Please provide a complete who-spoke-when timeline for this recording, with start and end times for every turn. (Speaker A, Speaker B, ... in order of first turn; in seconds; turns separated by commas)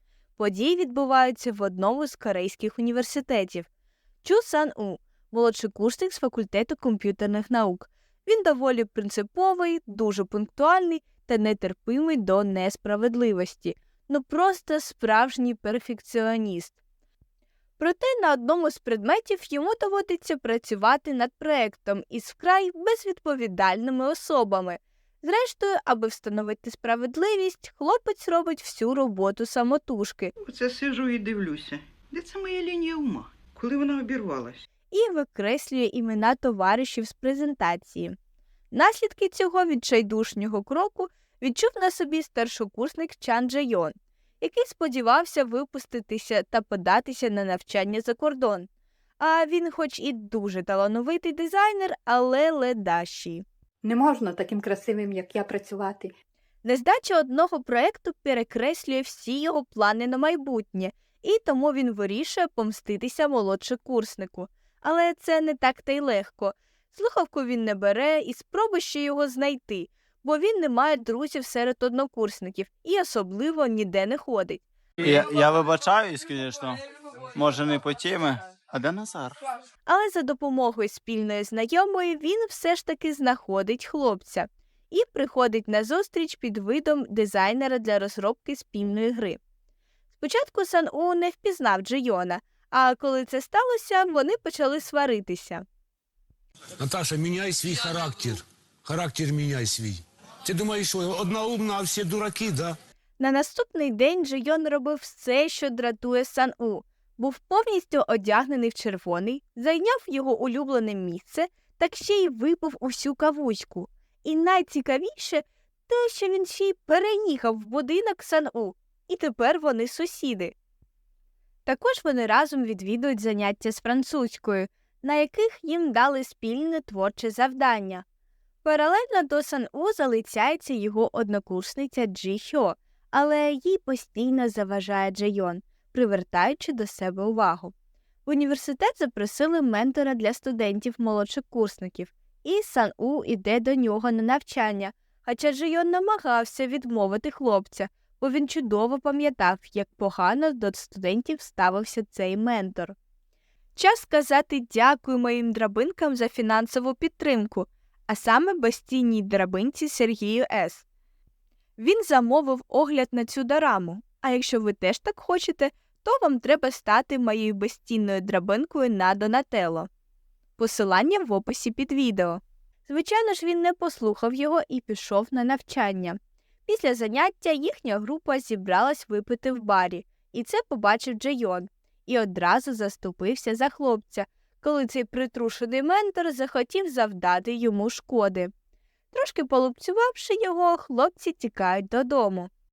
Speaker A: 0.4-3.7, Speaker A: 4.2-16.8, Speaker A: 17.8-30.3, Speaker B: 30.4-34.6, Speaker A: 34.9-38.1, Speaker A: 38.7-48.7, Speaker A: 49.2-53.4, Speaker C: 53.8-56.1, Speaker A: 56.6-74.6, Speaker D: 75.0-76.8, Speaker D: 77.3-79.4, Speaker A: 79.9-89.4, Speaker A: 90.2-95.7, Speaker E: 96.8-102.8, Speaker A: 103.2-120.5, Speaker A: 121.7-128.0, Speaker A: 128.6-137.7, Speaker A: 138.3-152.9, Speaker A: 153.8-160.8, Speaker A: 161.8-169.9, Speaker A: 170.6-188.5, Speaker A: 189.1-192.5